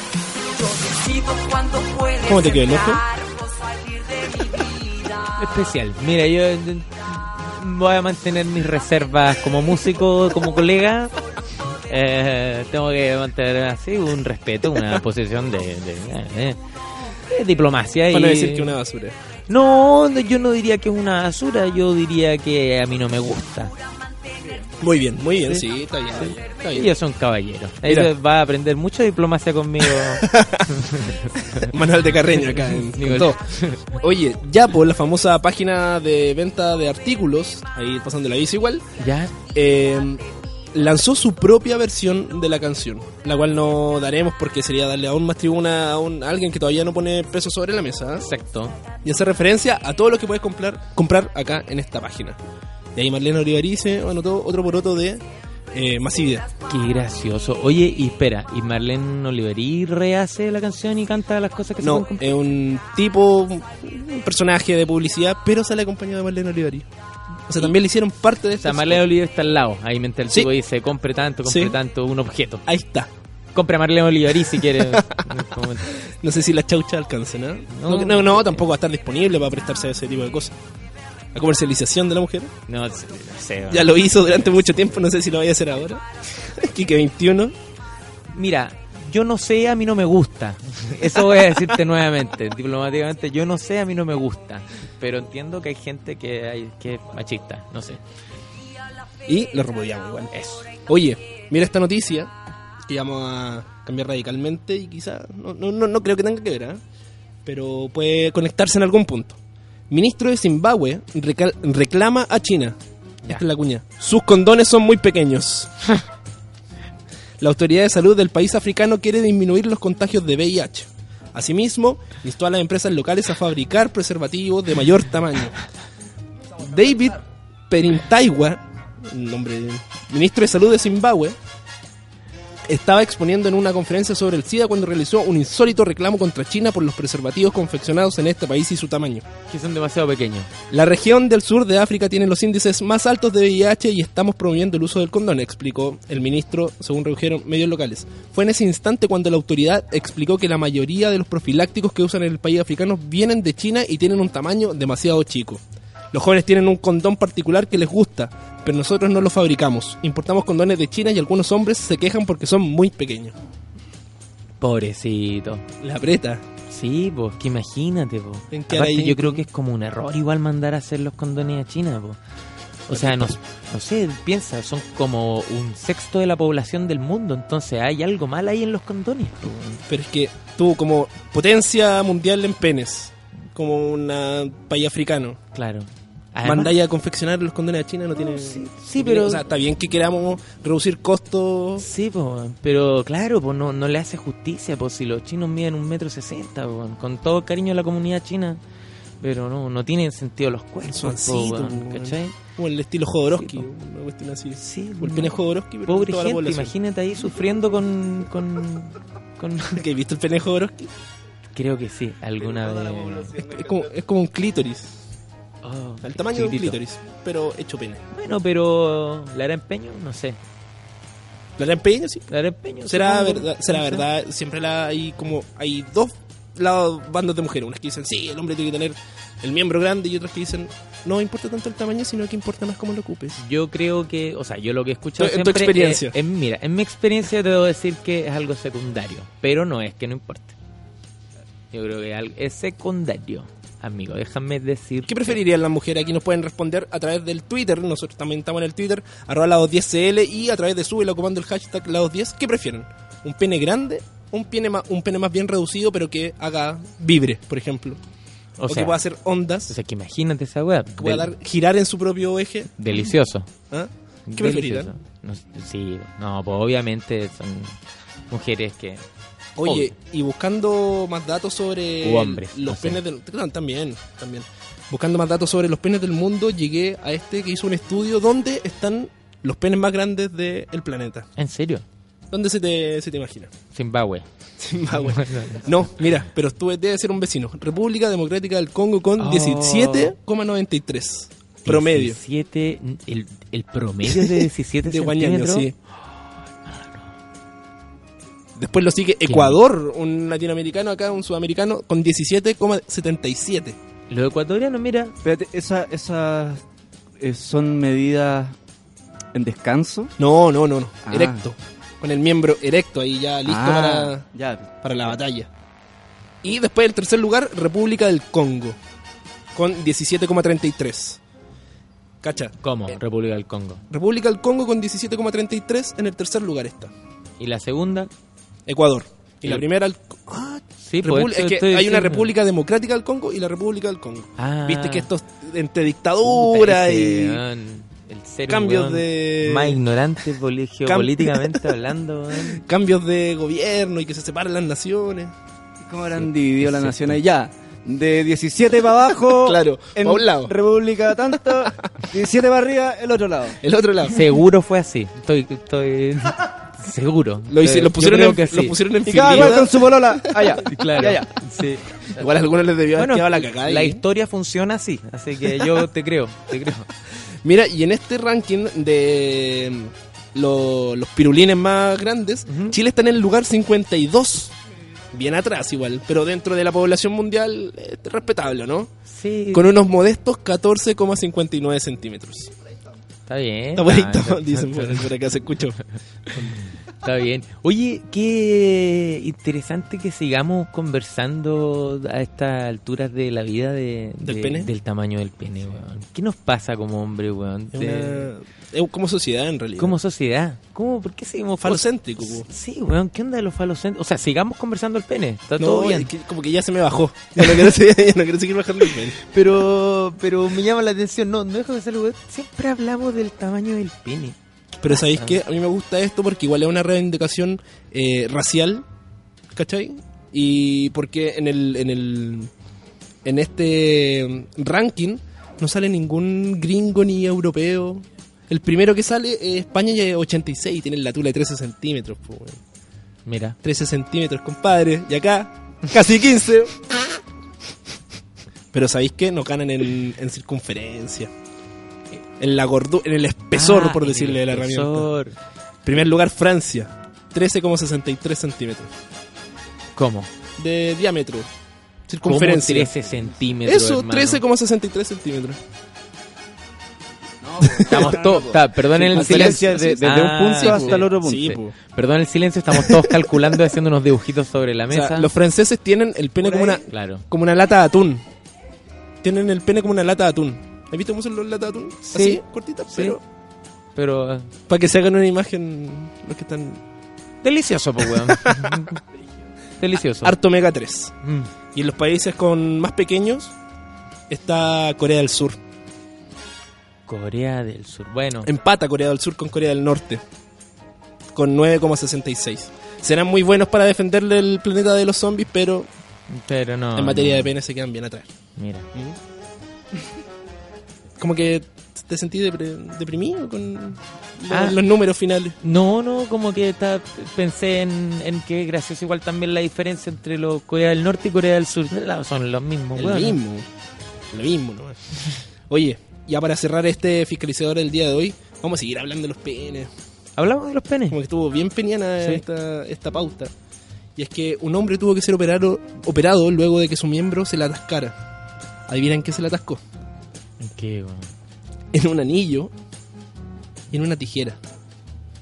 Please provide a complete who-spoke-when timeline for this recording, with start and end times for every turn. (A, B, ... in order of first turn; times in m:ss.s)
0:00.5-0:05.4 A
0:02.2-0:03.0 B
0:05.4-0:11.2 C
0:11.9-0:16.6 C
0:17.3-0:18.8 C
0:18.1-0:19.2 B
0:19.5-0:23.7 C
0:24.7-0:26.9 B
0:25.5-0:31.7 C
0:29.9-0:30.8 B
0:31.5-0:33.4 B
0:32.5-0:34.0 C
0:34.0-0:38.9 B
0:39.0-0:39.4 C
0:39.5-0:40.2 B
0:40.7-0:48.2 B
0:48.2-0:48.8 C
0:49.0-0:52.4 B
0:53.0-0:56.5 B
0:56.7-1:02.3 C
1:01.8-1:06.9 B
1:07.5-1:09.0 B
1:08.6-1:12.6 C
1:11.5-1:11.8 B
1:12.7-1:13.1 B
1:13.6-1:15.9 C
1:14.6-1:15.2 B
1:15.9-1:20.5 B
1:17.7-1:18.6 C
1:21.4-1:22.5 B
1:22.7-1:24.6 C
1:23.7-1:27.5 B
1:28.3-1:38.0 C
1:39.3-1:40.3 B
1:40.3-1:40.7 C
1:40.9-1:42.3 B
1:42.9-1:46.8 B
1:47.5-1:49.4 B
1:49.9-1:52.8 B
1:53.3-1:55.7 B
1:57.4-2:05.6 B
2:06.6-2:11.4 B
2:12.7-2:19.2 B
2:19.5-2:20.5 C
2:20.7-2:35.6 B
2:36.1-2:43.3 B
2:44.6-2:45.6 C
2:45.8-2:46.4 B
2:46.7-2:52.2 C
2:48.5-2:49.4 B
2:52.9-2:59.8 C
2:52.9-2:53.3 B
2:59.9-3:05.4 B
3:05.5-3:06.8 C
3:06.4-3:11.8 B
3:08.2-3:09.4 C
3:11.8-3:18.6 C
3:19.2-3:22.4 C
3:20.9-3:26.7 B
3:23.3-3:23.7 C
3:24.6-3:25.4 C
3:25.9-3:29.8 C
3:29.8-3:30.9 B
3:31.5-3:33.3 C
3:32.8-3:33.6 D
3:33.4-3:34.9 B
3:35.6-3:36.8 C
3:36.0-3:38.0 B
3:38.1-3:40.4 C
3:41.6-3:42.3 B
3:42.3-3:44.0 C
3:42.9-3:53.4 B
3:53.4-4:00.5 C
3:55.2-3:56.2 B
4:01.7-4:05.4 C
4:05.1-4:18.0 B
4:18.6-4:19.0 C
4:18.7-4:19.7 B
4:19.7-4:21.3 C
4:21.0-4:22.8 B
4:22.8-4:23.5 C
4:23.7-4:24.9 B
4:24.3-4:27.8 C
4:28.3-4:29.0 C
4:29.6-4:41.3 B
4:29.6-4:29.9 C
4:32.0-4:33.0 C
4:41.4-4:41.8 C
4:42.3-4:43.5 B
4:43.7-4:44.2 C
4:44.6-4:52.2 B
4:45.0-4:45.6 C
4:49.2-4:50.1 C
4:51.7-4:55.7 C
4:54.1-4:55.7 B
4:56.6-4:57.0 C
4:58.6-5:03.8 B
4:59.2-4:59.6 C
5:04.1-5:05.1 C
5:05.2-5:06.6 D
5:07.2-5:08.5 D
5:09.3-5:10.1 D
5:10.2-5:14.2 B
5:11.1-5:11.4 D
5:13.4-5:14.7 D
5:14.8-5:15.5 B
5:16.4-5:18.8 B
5:19.5-5:21.2 B
5:22.2-5:22.5 B
5:22.6-5:23.8 C
5:23.9-5:26.9 B
5:27.4-5:28.1 C
5:28.7-5:37.4 B
5:30.8-5:32.3 C
5:34.4-5:35.1 C
5:36.2-5:42.6 C
5:38.5-5:39.8 B
5:40.9-5:41.7 B
5:42.5-5:45.3 B
5:45.9-5:53.6 D
5:46.2-5:47.2 C
5:49.4-5:50.5 B
5:53.6-5:54.3 B
5:54.1-5:58.8 C
5:57.5-6:00.6 B
5:59.0-6:01.4 D
5:59.3-5:59.6 C
6:00.6-6:02.2 C
6:02.2-6:04.0 B
6:03.0-6:06.9 C
6:07.4-6:14.5 B
6:12.5-6:12.8 C
6:15.1-6:18.9 B
6:19.1-6:19.7 C
6:19.5-6:22.5 B
6:23.3-6:25.1 C
6:23.8-6:25.8 B
6:26.3-6:38.3 C
6:34.2-6:34.7 B
6:37.7-6:40.0 B
6:39.8-6:46.1 C
6:41.6-6:42.5 B
6:45.6-6:49.2 B
6:47.4-6:47.7 C
6:49.2-6:54.4 C
6:54.8-6:58.8 B
6:54.9-6:55.4 C
6:59.5-7:02.5 B
7:03.2-7:12.6 B
7:13.2-7:13.6 C
7:13.6-7:16.8 B
7:18.7-7:21.3 B
7:22.4-7:25.1 B
7:23.5-7:25.4 C
7:25.9-7:28.9 B
7:30.0-7:30.3 C
7:30.6-7:31.5 B
7:32.1-7:32.9 B
7:32.2-7:34.4 C
7:33.6-7:35.6 B
7:37.4-7:41.6 D
7:37.7-7:38.2 B
7:37.9-7:41.1 C
7:39.0-7:40.0 B
7:40.6-7:41.7 B
7:41.9-7:45.3 C
7:42.7-7:43.3 B
7:44.9-7:48.2 B
7:46.4-7:46.8 D
7:46.9-7:47.2 C
7:49.2-7:53.2 B
7:52.0-7:53.2 C
7:54.0-7:54.5 C
7:54.7-7:56.8 B
7:57.4-7:59.0 C
7:58.1-7:58.9 B
7:59.8-8:00.4 C
8:00.2-8:01.2 B
8:01.2-8:01.5 C
8:01.7-8:03.5 B
8:04.3-8:05.6 B
8:07.1-8:08.5 C
8:08.4-8:10.2 B
8:11.4-8:15.9 B
8:16.3-8:17.5 C
8:17.0-8:18.3 B
8:18.6-8:18.9 C
8:21.2-8:25.6 B
8:24.5-8:24.8 C
8:25.6-8:33.4 C
8:33.0-8:33.7 B
8:34.3-8:35.0 B
8:35.7-8:39.9 B
8:40.4-8:41.2 C
8:41.1-8:43.5 B
8:44.2-8:48.2 B
8:48.9-8:49.8 B
8:50.6-8:51.3 C
8:51.9-8:52.7 B
8:53.9-8:54.6 B